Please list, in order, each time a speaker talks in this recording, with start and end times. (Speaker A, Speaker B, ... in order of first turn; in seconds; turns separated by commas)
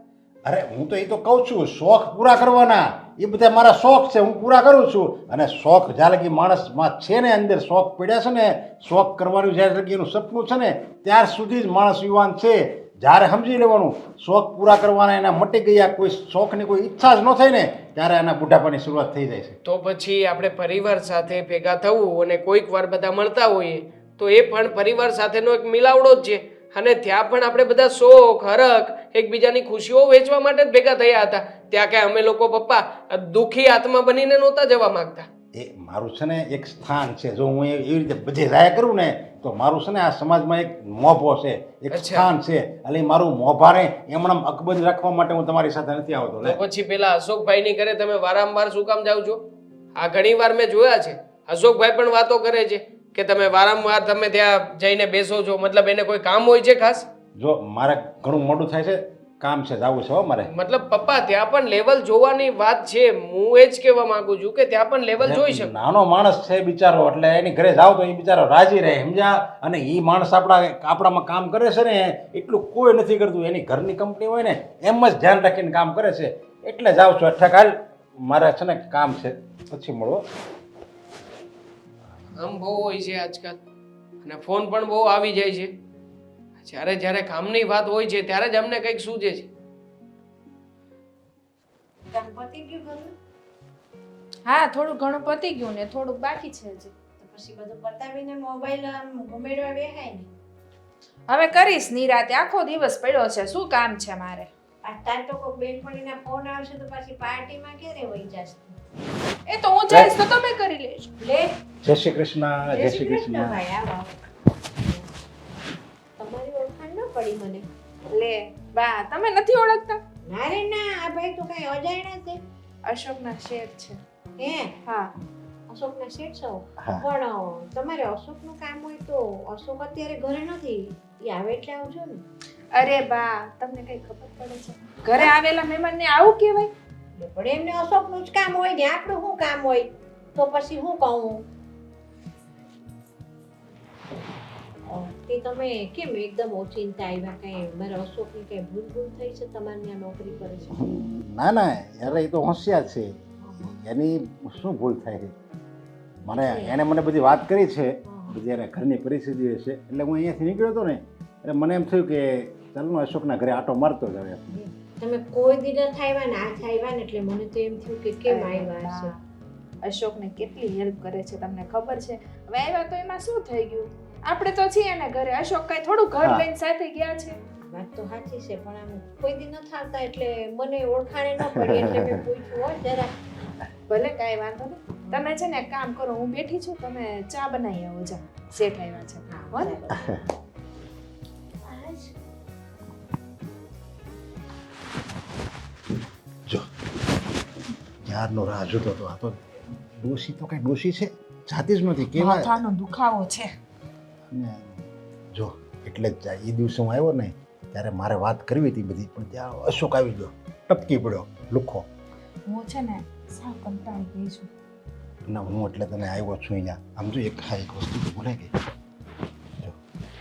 Speaker A: 0.5-19.6, Speaker B: 19.6-35.2, Speaker A: 35.5-46.6, Speaker B: 41.9-42.3, Speaker B: 46.4-49.4, Speaker B: 50.0-57.1, Speaker A: 57.4-60.5, Speaker B: 60.5-65.7, Speaker A: 65.2-80.2, Speaker B: 82.4-83.6, Speaker B: 84.2-85.7, Speaker B: 86.6-89.5, Speaker C: 92.1-93.1, Speaker D: 94.5-97.0, Speaker C: 97.2-100.3, Speaker D: 101.3-104.5, Speaker C: 104.8-108.8, Speaker D: 109.5-111.1, Speaker A: 109.9-110.1, Speaker C: 111.2-111.5, Speaker A: 111.8-113.6, Speaker C: 112.7-115.1, Speaker C: 116.2-117.7, Speaker D: 118.1-120.0, Speaker C: 120.2-122.4, Speaker D: 122.8-124.0, Speaker C: 124.4-124.8, Speaker D: 124.8-125.1, Speaker C: 125.7-132.2, Speaker A: 126.8-127.0, Speaker D: 132.7-136.7, Speaker C: 137.2-141.4, Speaker C: 144.9-150.8, Speaker A: 150.8-155.3, Speaker C: 153.4-153.7, Speaker A: 156.2-164.4, Speaker C: 156.3-156.8, Speaker C: 158.1-158.4, Speaker C: 164.5-169.2, Speaker D: 168.3-169.1, Speaker D: 169.8-177.3, Speaker C: 177.6-183.1, Speaker D: 183.9-189.9, Speaker C: 184.9-185.3, Speaker C: 189.3-190.2, Speaker C: 191.6-192.1, Speaker A: 198.0-199.4, Speaker A: 200.0-202.6, Speaker D: 202.2-203.5, Speaker A: 204.3-211.9, Speaker D: 212.5-214.5, Speaker A: 215.3-218.5